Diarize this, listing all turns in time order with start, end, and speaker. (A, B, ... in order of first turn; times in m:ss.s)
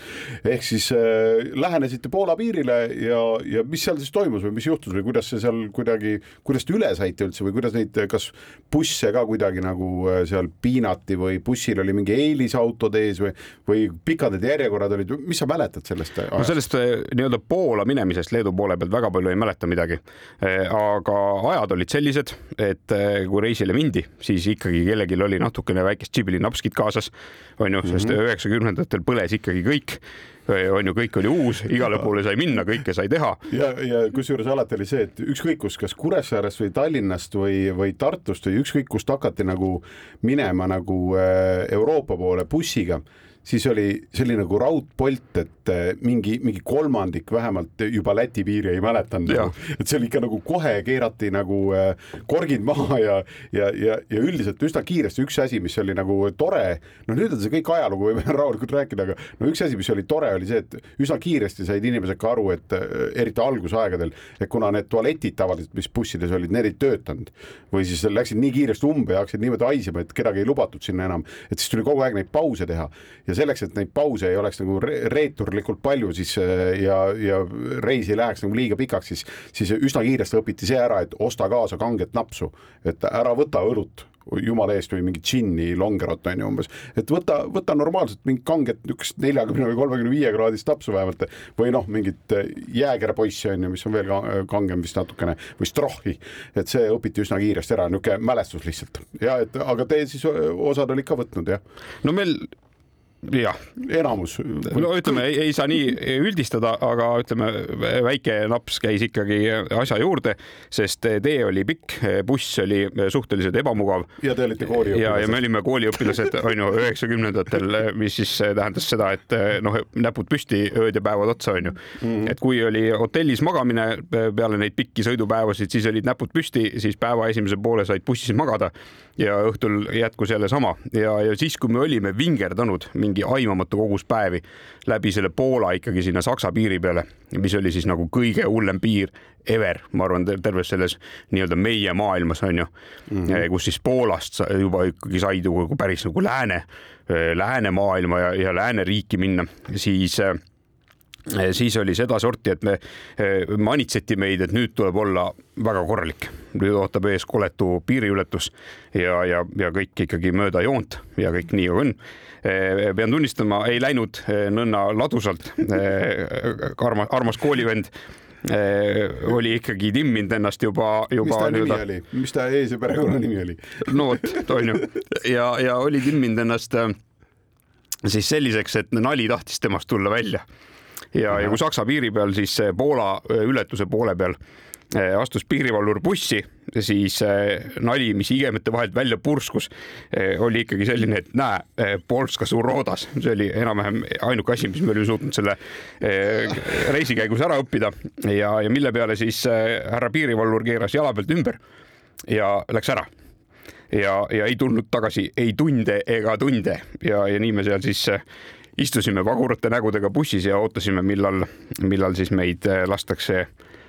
0:00.4-0:16.6 A
0:16.4-0:33.4 B
0:33.5-1:41.6 A
1:42.0-1:42.5 B
1:43.2-1:43.6 B
1:43.8-1:45.2 A
1:44.7-2:22.7 B
1:54.2-1:55.4 A
2:02.0-2:02.3 A
2:23.2-2:30.4 B
2:31.3-2:47.9 B
2:48.4-2:51.8 B
2:51.2-2:54.0 A
2:53.8-2:57.0 B
2:58.0-3:00.4 B
3:01.1-3:04.4 B
3:04.9-3:21.6 B
3:22.3-3:23.1 B
3:23.9-3:28.2 B
3:28.8-3:33.5 B